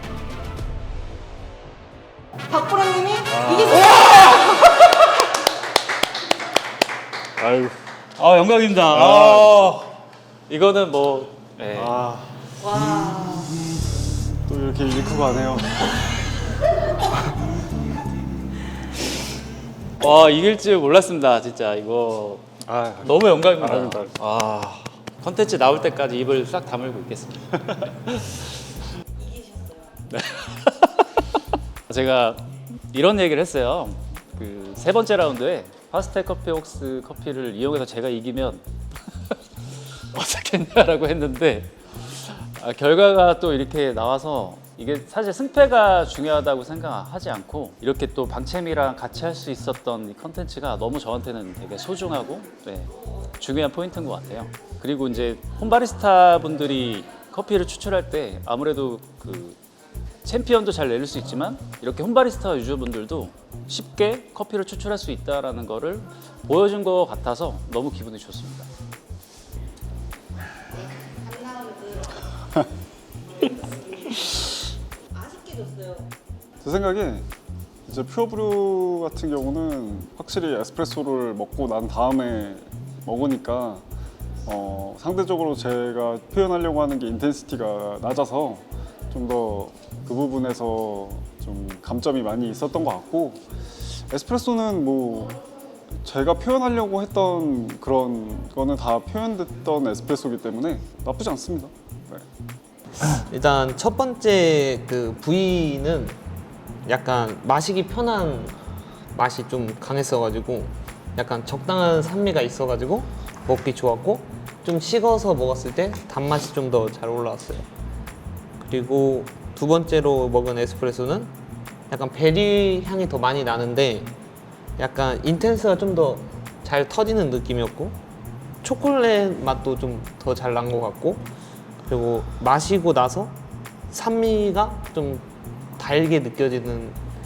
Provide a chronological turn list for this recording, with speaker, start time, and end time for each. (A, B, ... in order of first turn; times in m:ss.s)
0:02.5-0:04.7 A
0:03.3-0:03.8 B
0:07.4-0:07.8 B
0:08.2-0:09.9 C
0:08.9-0:09.8 B
0:10.5-0:11.9 C
0:11.7-0:12.3 B
0:12.6-0:13.5 A
0:14.5-0:15.9 B
0:20.0-0:22.5 C
0:22.6-0:24.1 B
0:23.0-0:28.2 C
0:29.2-0:30.0 A
0:30.1-0:31.1 C
0:31.9-0:38.6 C
0:40.1-0:59.6 C
1:00.2-1:08.7 C
1:10.8-1:12.2 A
1:13.4-1:14.5 A
1:15.1-1:16.1 A
1:16.6-1:17.3 B
1:17.9-1:23.8 B
1:24.4-1:35.4 B
1:36.0-1:42.2 B
1:43.0-1:46.2 D
1:46.8-1:48.6 D
1:49.1-1:57.6 D
1:58.6-2:01.3 D
2:01.9-2:04.1 D
2:04.8-2:08.0 D
2:08.6-2:11.2 D
2:11.8-2:13.4 D
2:13.9-2:15.2 D
2:15.8-2:17.0 D